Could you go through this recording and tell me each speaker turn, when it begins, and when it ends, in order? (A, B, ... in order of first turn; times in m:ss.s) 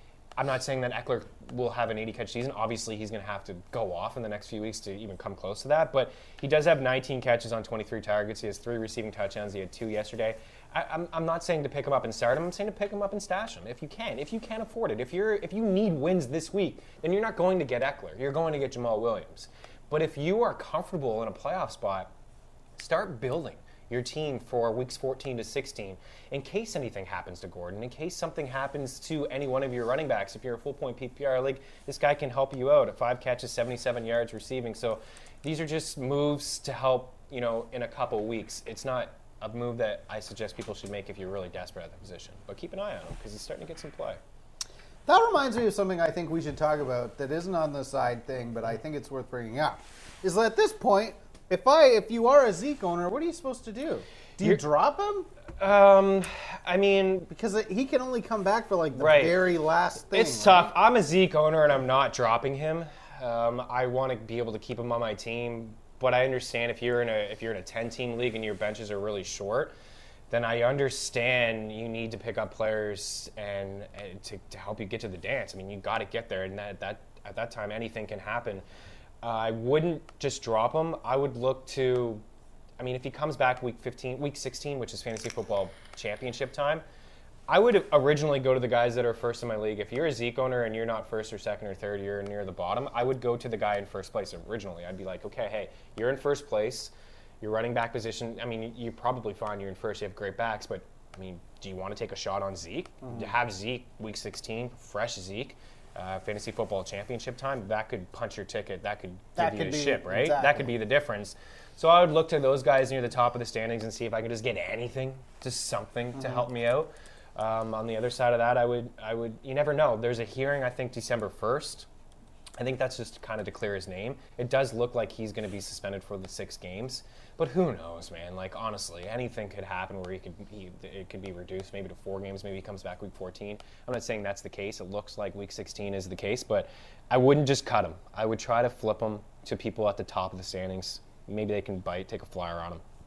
0:00.4-0:22.1 A
0:22.8-0:44.2 A
0:45.0-0:55.3 B
0:55.6-0:57.3 A
0:57.3-1:00.7 B
0:59.0-0:59.4 A
1:00.1-1:09.7 A
1:10.3-1:18.6 A
1:19.2-1:22.2 A
1:22.8-1:26.8 A
1:27.5-2:01.9 A
1:43.0-1:43.3 B
1:49.4-1:50.7 B
1:56.1-1:56.5 B
2:02.6-2:22.8 A